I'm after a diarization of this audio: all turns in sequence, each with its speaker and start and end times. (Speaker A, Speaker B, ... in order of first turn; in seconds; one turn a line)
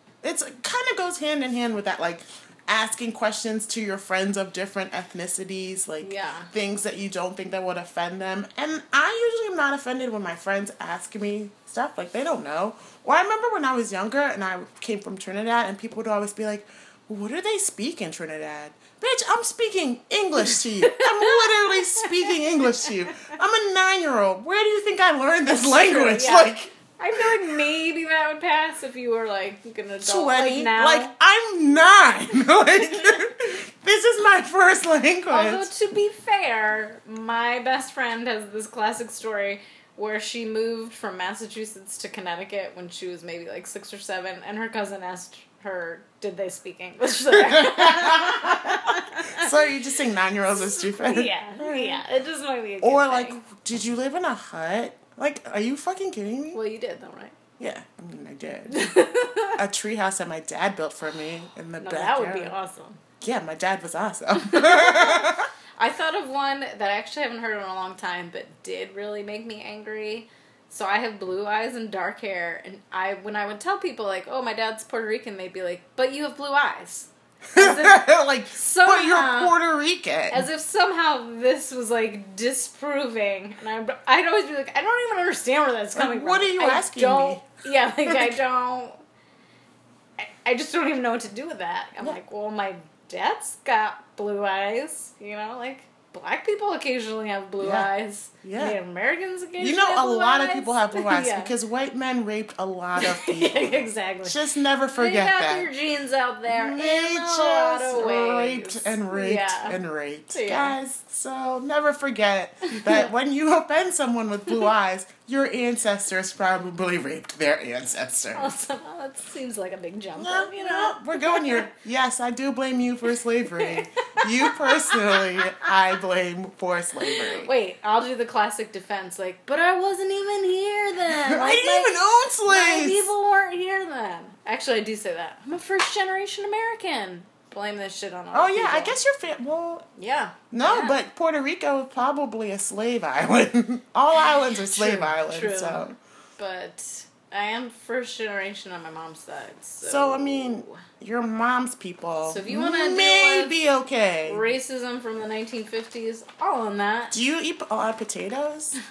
Speaker A: 0.2-27.6
Speaker B: 6.0-6.5
Speaker B: 20.4-22.3
Speaker B: 25.7-31.1
Speaker A: 30.0-35.7
Speaker B: 35.3-49.5
Speaker A: 47.3-52.0
Speaker B: 50.5-53.4
Speaker A: 52.8-56.6
Speaker B: 56.5-57.3
Speaker A: 57.6-58.8
Speaker B: 58.7-59.6
Speaker A: 59.5-62.5
Speaker B: 61.8-63.0
Speaker A: 63.2-65.5
Speaker B: 64.4-79.5
Speaker A: 77.5-80.5
Speaker B: 80.3-89.0
Speaker A: 85.9-87.5
Speaker A: 88.0-88.4
Speaker B: 90.2-101.5
Speaker A: 97.6-97.9
Speaker A: 98.4-98.8
Speaker A: 99.6-105.7
Speaker B: 103.0-104.4
Speaker B: 104.9-109.8
Speaker A: 106.5-118.5
Speaker B: 110.3-110.8
Speaker B: 112.7-113.1
Speaker B: 118.3-121.7
Speaker A: 120.2-127.5
Speaker B: 123.5-125.7
Speaker B: 127.0-138.9
Speaker A: 131.1-133.1
Speaker A: 138.3-139.9
Speaker B: 140.0-141.0
Speaker A: 140.5-145.9
Speaker B: 144.1-145.8
Speaker B: 146.4-150.8
Speaker A: 149.8-154.5
Speaker B: 152.2-153.5
Speaker B: 154.2-157.1
Speaker A: 157.1-158.8